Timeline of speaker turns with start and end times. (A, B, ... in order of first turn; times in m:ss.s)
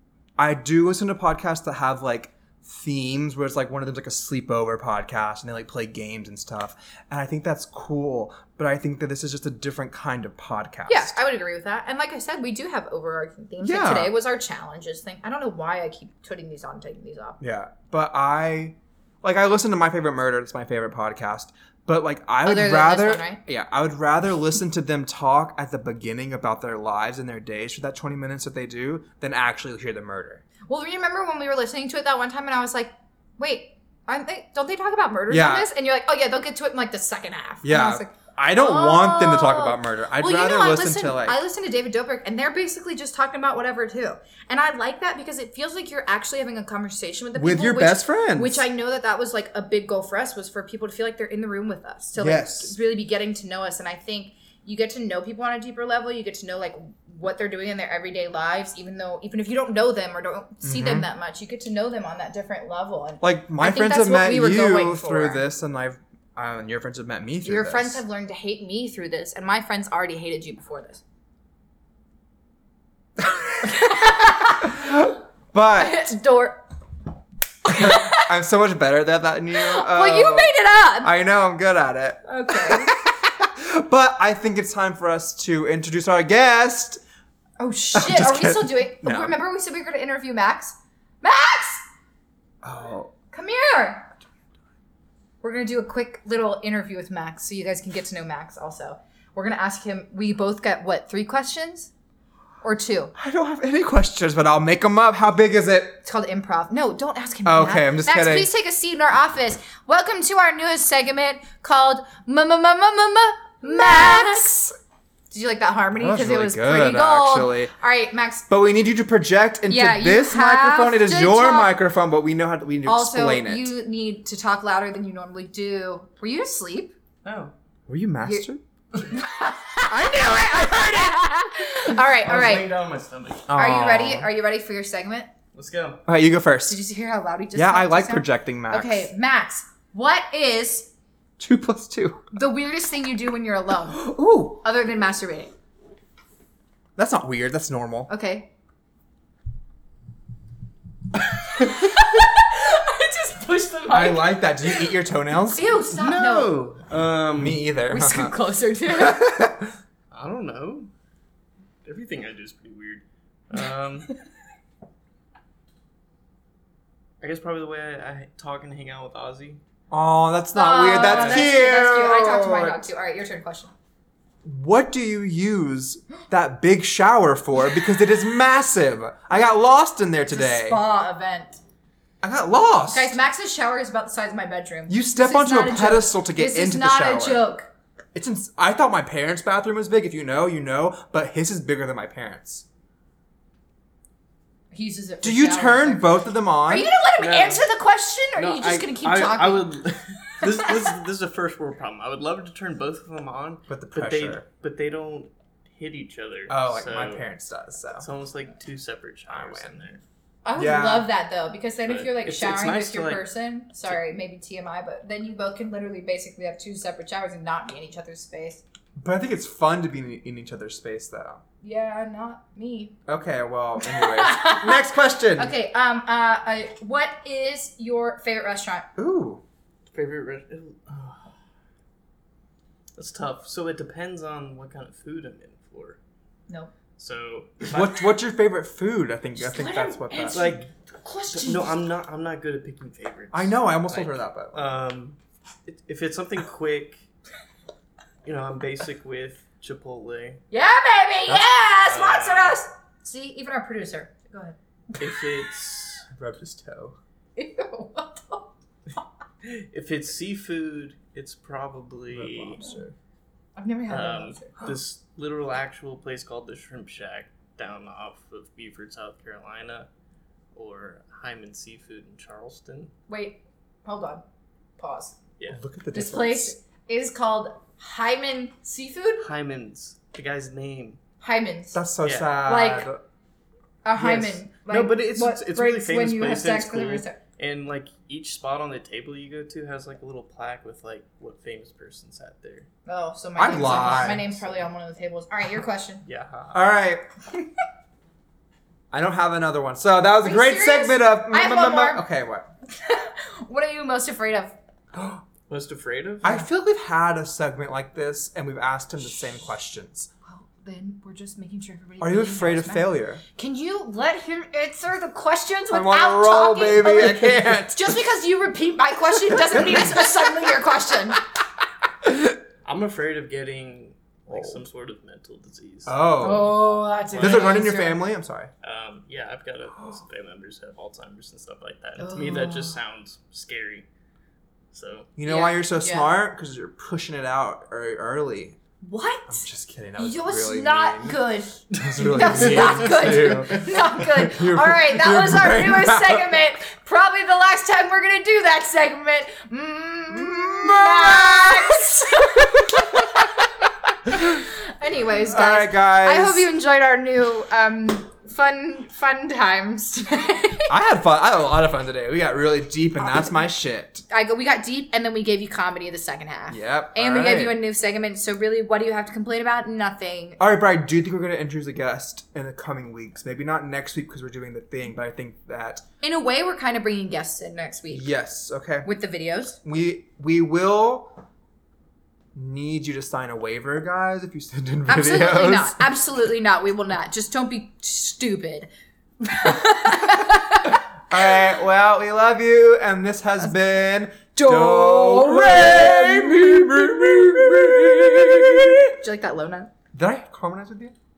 0:00.4-0:11.1 A
0:10.9-0:17.4 B
0:13.6-0:14.1 A
0:17.4-0:30.4 A
0:22.4-0:23.4 B
0:30.7-1:05.4 B
0:35.3-0:35.7 A
0:37.6-0:41.4 A
0:47.4-0:48.6 A
0:52.2-0:52.7 A
1:00.6-1:01.1 A
1:03.2-1:08.0 A
1:07.4-1:11.0 B
1:13.2-1:16.1 A
1:13.6-1:15.0 B
1:15.8-1:16.6 B
1:17.6-1:18.3 B
1:17.6-1:27.0 A
1:19.5-1:21.1 B
1:22.2-1:23.0 B
1:27.6-1:31.8 B
1:27.9-1:29.4 A
1:32.6-1:33.1 A
1:33.3-1:34.1 B
1:35.4-1:41.9 B
1:42.6-1:43.1 B
1:43.1-1:46.0 A
1:46.0-1:54.7 B
1:47.4-1:48.5 A
1:53.6-1:54.4 A
1:55.3-1:58.5 B
1:55.9-1:57.7 A
1:58.5-2:03.7 A
1:59.7-2:01.7 B
2:02.8-2:06.9 B
2:07.2-2:07.5 C
2:07.9-2:08.6 A
2:09.1-2:12.7 B
2:09.9-2:11.0 A
2:12.2-2:13.5 C
2:13.5-2:14.3 A
2:13.5-2:15.3 B
2:15.5-2:16.0 C
2:16.1-2:16.8 A
2:16.7-2:20.9 B
2:17.5-2:19.1 A
2:21.4-2:22.2 A
2:22.3-2:25.5 B
2:23.9-2:24.6 A
2:27.0-2:28.1 A
2:28.1-2:28.5 B
2:31.4-2:34.9 B
2:33.9-2:35.8 A
2:35.4-2:36.6 B
2:35.9-2:37.7 C
2:37.4-2:38.3 A
2:37.9-2:39.3 B
2:38.9-2:39.7 A
2:40.1-2:40.9 C
2:41.8-2:44.1 C
2:47.2-2:49.6 C
2:49.9-2:52.8 A
2:50.5-2:53.7 B
2:50.9-2:51.5 C
2:54.4-3:00.8 A
3:00.3-3:01.6 B
3:02.2-3:03.1 A
3:02.9-3:07.7 B
3:04.9-3:07.4 A
3:08.1-3:12.6 A
3:14.7-3:19.7 B
3:15.2-3:16.9 A
3:17.2-3:17.7 C
3:18.4-3:27.3 C
3:20.4-3:20.7 B
3:23.7-3:24.4 A
3:26.5-3:28.0 A
3:28.0-3:30.0 C
3:29.3-3:29.8 A
3:30.4-3:38.6 B
3:30.6-3:31.1 A
3:31.9-3:33.3 C
3:39.0-3:41.4 A
3:41.6-3:43.0 B
3:43.1-3:45.5 A
3:43.8-3:48.9 B
3:49.0-3:49.4 A
3:49.9-3:51.3 C
3:52.9-3:56.0 C
3:57.0-3:58.0 C
3:57.6-4:00.5 A
3:59.4-4:01.7 B
4:00.3-4:00.7 C
4:01.3-4:07.0 C
4:03.3-4:04.6 A
4:08.2-4:10.4 C
4:10.5-4:15.1 B
4:11.3-4:12.6 C
4:15.0-4:16.0 C
4:16.1-4:17.0 A
4:17.4-4:18.5 B
4:19.4-4:22.6 C
4:22.1-4:22.9 A
4:23.6-4:24.6 B
4:23.9-4:29.9 C
4:30.5-4:32.9 C
4:33.1-4:34.2 B
4:34.8-4:35.2 B
4:35.5-4:36.5 A
4:35.9-4:39.3 B
4:39.2-4:41.0 C
4:41.2-4:41.8 B
4:41.7-4:43.0 A
4:42.0-4:42.3 C
4:42.4-4:42.9 B
4:43.8-4:47.2 B
4:44.0-4:52.7 C
4:44.0-4:44.3 A
4:52.8-4:56.0 B
4:53.4-4:54.4 A
4:56.0-4:56.6 C
4:56.5-4:57.0 A
4:58.9-5:02.5 A
5:00.2-5:02.0 B
5:02.7-5:04.5 B
5:04.9-5:06.4 C
5:06.2-5:10.1 A
5:10.2-5:21.2 B
5:12.0-5:13.2 A
5:15.7-5:18.0 A
5:19.3-5:20.2 A
5:22.0-5:22.3 A
5:22.6-5:25.9 C
5:24.3-5:24.6 A
5:25.8-5:26.6 A
5:26.2-5:28.0 B
5:27.1-5:27.6 C
5:27.2-5:28.5 A
5:28.6-5:33.8 C
5:32.0-5:32.8 B
5:34.7-5:35.1 C
5:35.2-5:38.6 A
5:35.2-5:36.1 B
5:38.8-5:53.4 B
5:39.3-5:46.4 A
5:42.0-5:43.6 C
5:50.1-5:53.4 A
5:54.0-5:54.4 A
5:54.1-6:00.7 B
5:55.2-5:56.5 A
6:00.7-6:04.0 A
6:04.1-6:10.4 B
6:06.5-6:07.6 A
6:10.4-6:15.8 A
6:16.0-6:18.1 B
6:17.9-6:18.9 A
6:18.8-6:19.6 B
6:19.6-6:21.2 A
6:22.3-6:25.8 A
6:24.9-6:28.7 B
6:29.2-6:30.8 B
6:31.1-6:38.9 A
6:34.3-6:36.8 B
6:39.0-6:39.7 B
6:39.9-6:40.9 A